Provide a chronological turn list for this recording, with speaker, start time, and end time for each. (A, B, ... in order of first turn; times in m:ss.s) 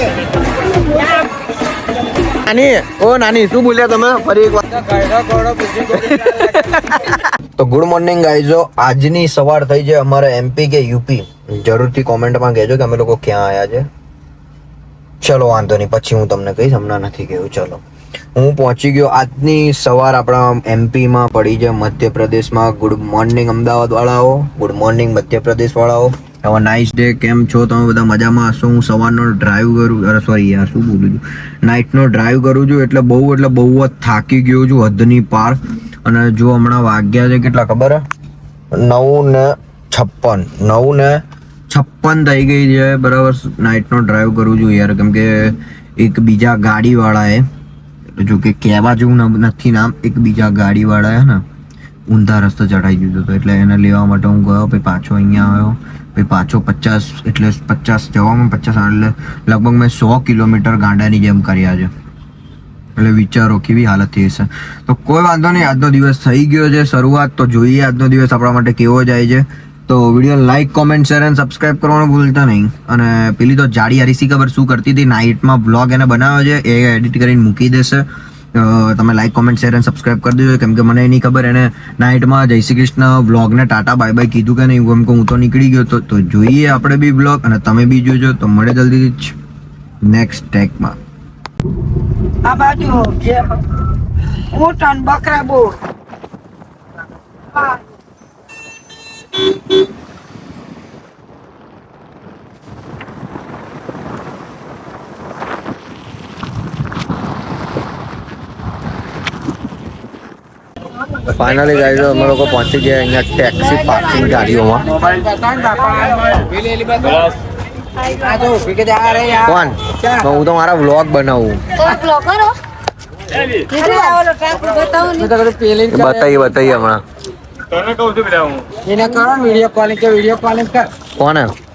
0:02.4-0:04.6 A
0:04.7-0:06.6 B
0:05.9-0:13.9 A
0:15.2-0:17.8 A
0:18.4-0:38.0 A
0:38.8-0:47.4 A
0:48.2-0:51.4 A
0:52.1-1:01.9 A
1:03.0-1:29.4 A
1:30.0-1:31.0 A
1:32.4-1:33.4 C
1:34.5-1:35.7 C
1:51.2-1:54.9 A
1:54.9-1:57.3 B
1:58.2-2:00.2 B
1:59.4-2:01.6 A
2:01.8-2:02.5 C
2:03.5-2:05.4 C
2:05.2-2:06.3 B
2:05.9-2:07.0 A
2:08.8-2:10.9 B
2:11.2-2:11.5 A